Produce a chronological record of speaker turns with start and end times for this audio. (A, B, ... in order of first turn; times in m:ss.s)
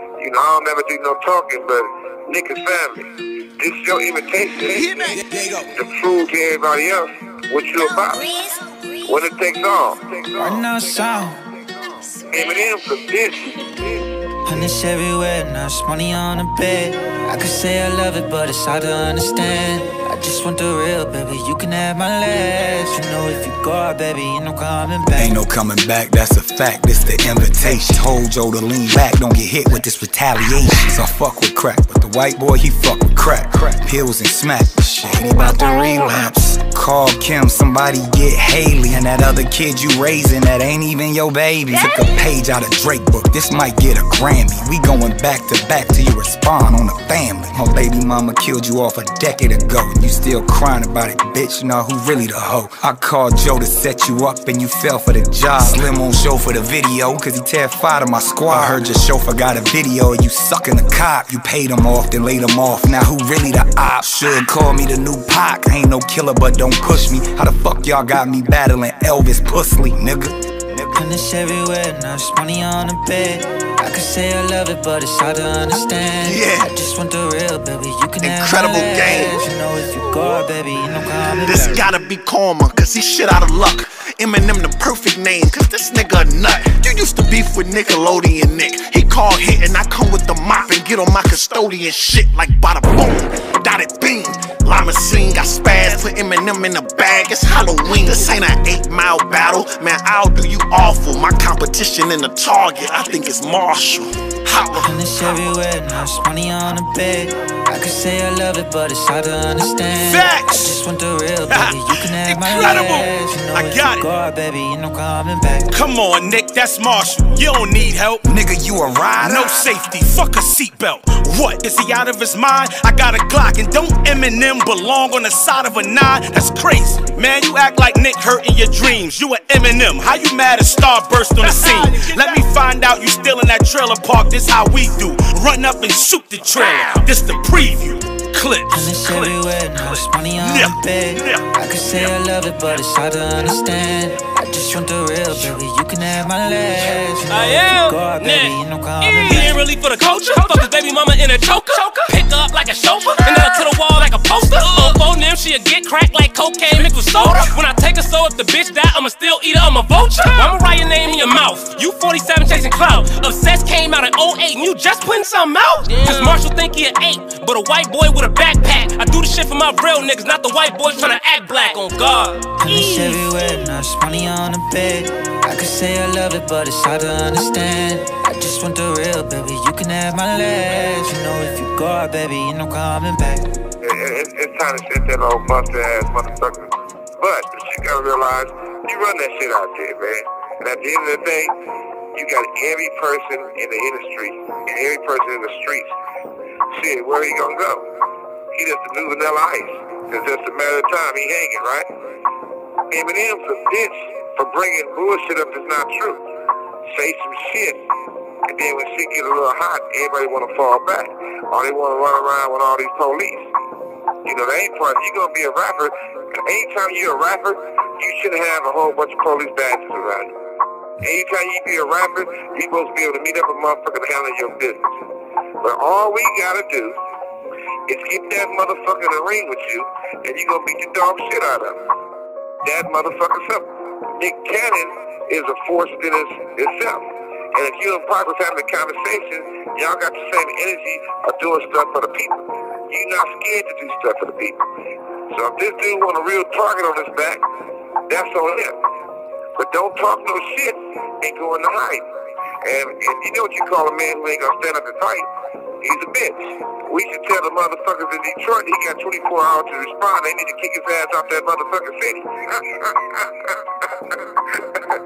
0:00.2-0:03.0 A
0:03.6-0:05.2 A
0:05.7-0:08.4 A
0:09.0-0:10.6 A
0:10.4-0:11.4 B
0:12.3-0:13.7 A
0:14.4-0:25.4 B
0:25.2-1:10.3 C
1:10.9-1:21.9 B
1:16.2-1:16.7 D
1:18.2-1:19.4 D
1:21.4-1:45.3 D
1:44.8-1:55.7 B
1:50.0-1:50.8 E
1:51.5-1:54.1 E
1:55.7-1:58.2 E
1:58.2-1:59.9 C
1:59.2-2:21.4 E
2:18.7-2:29.6 B
2:27.3-2:53.3 F
2:52.6-3:03.5 B
3:03.8-3:11.5 A
3:12.1-3:15.9 A
3:16.7-3:17.9 A
3:18.5-3:21.9 A
3:22.9-3:26.2 A
3:26.9-3:27.8 A
3:28.5-3:33.5 A
3:34.2-3:35.9 A
3:36.4-3:40.3 A
3:41.0-3:44.9 A
3:45.6-3:47.0 A
3:47.9-3:51.8 A
3:52.6-4:04.6 A
4:05.3-4:07.4 A
4:08.1-4:08.7 A
4:09.6-4:12.1 A
4:12.6-4:15.3 A
4:15.8-4:23.6 A